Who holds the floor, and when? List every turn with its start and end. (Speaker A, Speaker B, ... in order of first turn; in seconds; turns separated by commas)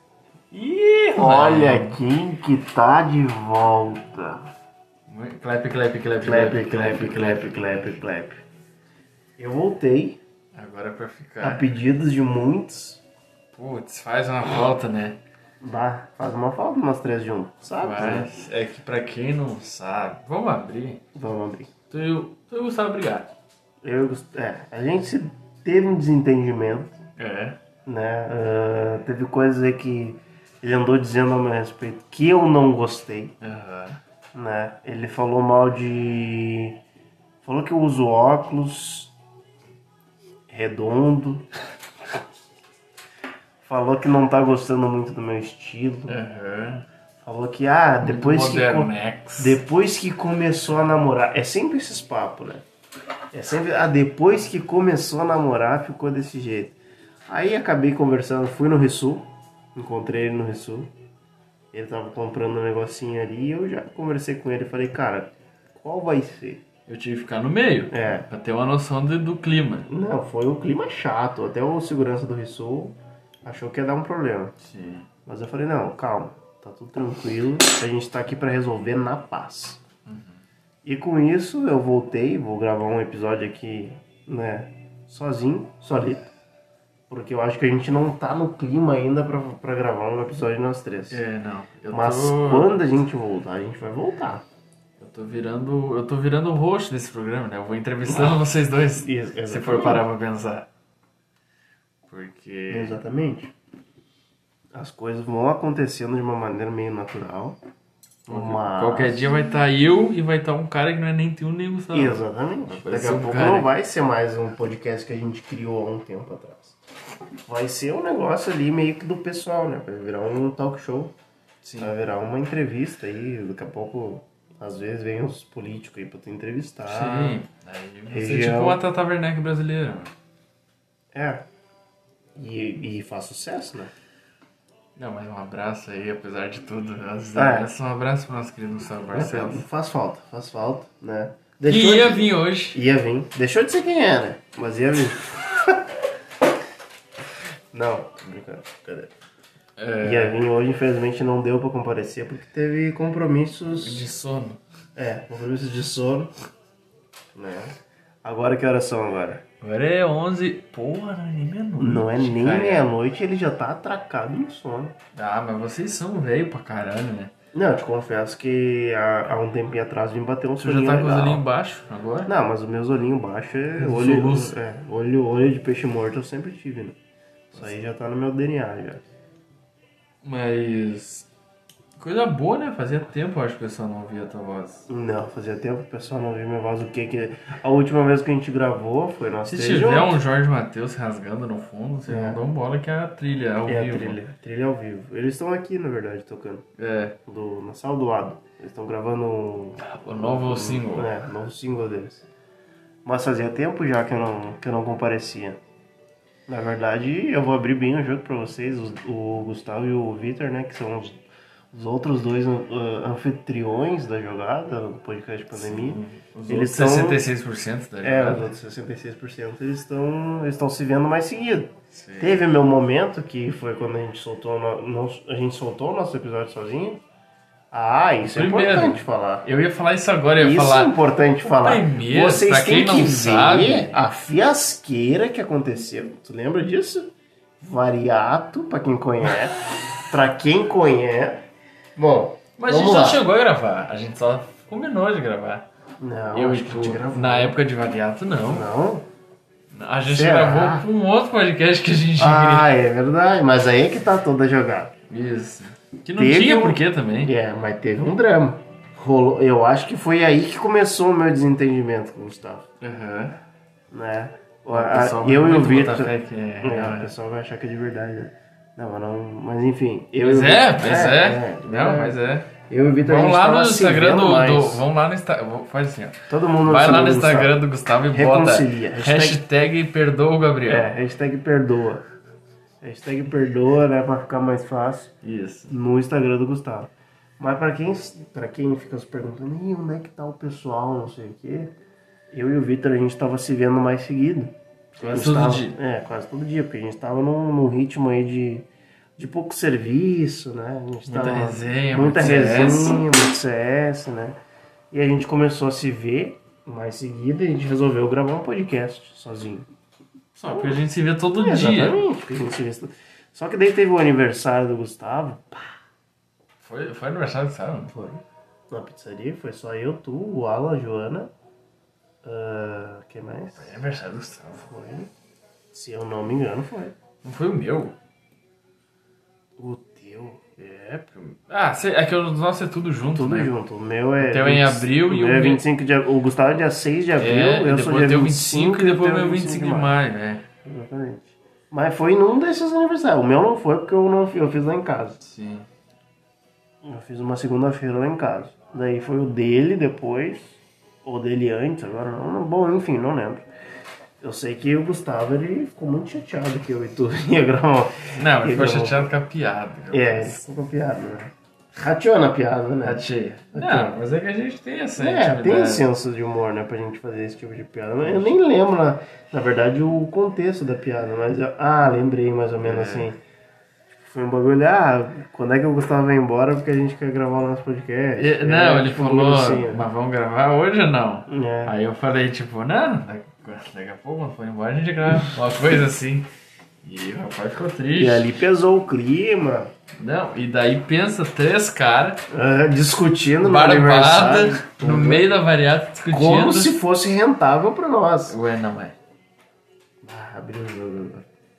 Speaker A: 0.5-2.0, Speaker B: 1.1-4.5, Speaker A: 5.1-8.0, Speaker B: 6.2-8.4, Speaker B: 9.4-10.2, Speaker A: 10.5-11.7, Speaker B: 11.4-13.0, Speaker A: 13.5-15.2, Speaker B: 15.6-18.3, Speaker A: 17.8-21.0, Speaker B: 21.1-21.7, Speaker A: 21.9-23.3, Speaker B: 23.8-27.0, Speaker A: 27.2-27.6, Speaker B: 27.9-33.4, Speaker A: 33.4-34.0, Speaker B: 34.3-36.8, Speaker B: 37.4-39.1, Speaker B: 40.5-41.5, Speaker B: 43.6-46.2, Speaker A: 46.1-46.9, Speaker B: 47.2-52.6, Speaker A: 48.0-49.6, Speaker B: 53.3-56.8, Speaker B: 57.3-60.9, Speaker B: 61.7-66.6, Speaker A: 66.9-69.9, Speaker B: 67.9-68.3, Speaker B: 69.9-74.5, Speaker A: 74.6-75.1, Speaker B: 75.3-79.8, Speaker A: 80.1-80.4, Speaker B: 80.8-86.3, Speaker B: 87.1-91.2, Speaker A: 91.1-92.8, Speaker B: 91.9-94.4, Speaker A: 95.0-100.7, Speaker B: 98.0-98.4, Speaker B: 99.0-100.1, Speaker A: 102.1-103.0, Speaker B: 102.7-103.5, Speaker B: 104.7-107.6, Speaker B: 108.3-109.3, Speaker A: 108.3-113.7, Speaker B: 111.9-116.8, Speaker B: 117.5-121.1, Speaker A: 121.6-121.9, Speaker B: 121.8-127.4, Speaker A: 126.9-130.1, Speaker B: 128.1-128.8, Speaker B: 131.1-131.4, Speaker B: 132.4-133.9, Speaker A: 135.0-139.6, Speaker B: 137.3-137.7, Speaker B: 139.1-145.8, Speaker A: 141.6-142.8, Speaker B: 147.7-149.1, Speaker A: 149.8-150.5, Speaker B: 150.0-154.1, Speaker A: 153.8-154.6, Speaker B: 155.0-156.3, Speaker B: 157.3-159.4, Speaker A: 159.6-162.9, Speaker B: 161.8-164.9, Speaker A: 165.1-167.3, Speaker B: 167.5-171.4, Speaker A: 170.6-172.3, Speaker B: 172.3-177.0, Speaker A: 173.8-174.5, Speaker B: 177.5-179.0, Speaker A: 177.5-177.8, Speaker A: 180.2-181.3, Speaker A: 182.0-184.9, Speaker B: 184.9-190.2, Speaker A: 189.4-194.2, Speaker B: 192.1-192.4, Speaker B: 193.7-196.7, Speaker A: 196.8-197.2, Speaker B: 197.3-202.3, Speaker A: 199.8-201.1, Speaker B: 203.1-205.6, Speaker B: 206.5-211.2, Speaker B: 211.7-217.2, Speaker A: 215.5-218.5, Speaker B: 218.0-227.0, Speaker A: 221.9-222.4, Speaker B: 227.7-229.5, Speaker A: 228.2-234.0, Speaker B: 230.4-241.4, Speaker B: 242.0-243.2, Speaker A: 242.6-245.7, Speaker B: 246.0-247.6, Speaker A: 246.3-248.7, Speaker B: 248.4-249.1, Speaker A: 249.7-252.7, Speaker B: 250.1-250.9, Speaker B: 252.2-254.9, Speaker A: 255.1-257.3, Speaker B: 256.2-262.7, Speaker A: 262.8-263.4, Speaker B: 263.9-274.8, Speaker A: 264.7-267.1, Speaker A: 270.2-272.5, Speaker A: 273.0-280.9, Speaker B: 276.3-277.6, Speaker B: 278.1-279.4, Speaker B: 280.7-282.0, Speaker B: 282.8-285.1, Speaker A: 285.2-285.7, Speaker B: 285.7-291.7, Speaker B: 292.3-298.7, Speaker A: 295.0-295.8, Speaker B: 299.2-304.4, Speaker A: 301.1-303.0, Speaker B: 304.9-309.7, Speaker A: 310.4-312.0, Speaker B: 310.5-310.8, Speaker B: 311.4-315.8, Speaker A: 316.6-317.9, Speaker B: 317.9-321.3, Speaker B: 322.2-323.8, Speaker A: 323.6-324.7, Speaker B: 324.6-325.1, Speaker B: 325.7-327.0, Speaker A: 327.2-327.9, Speaker B: 329.6-330.6, Speaker A: 330.6-333.5, Speaker B: 333.1-339.9, Speaker A: 334.2-335.6, Speaker A: 337.2-340.4, Speaker B: 340.6-345.2, Speaker A: 345.2-345.7, Speaker B: 346.8-353.4, Speaker B: 354.2-359.1, Speaker A: 358.2-360.4, Speaker B: 359.9-363.9, Speaker A: 362.8-365.9, Speaker B: 365.0-373.2, Speaker A: 368.1-368.3, Speaker A: 372.6-373.1, Speaker B: 373.9-379.9, Speaker A: 378.2-386.3, Speaker B: 381.3-381.7, Speaker A: 386.8-388.3, Speaker B: 388.0-389.7, Speaker A: 390.0-392.2, Speaker B: 392.3-395.3, Speaker A: 393.4-396.8, Speaker B: 396.1-398.4, Speaker A: 398.3-399.0, Speaker B: 400.0-401.3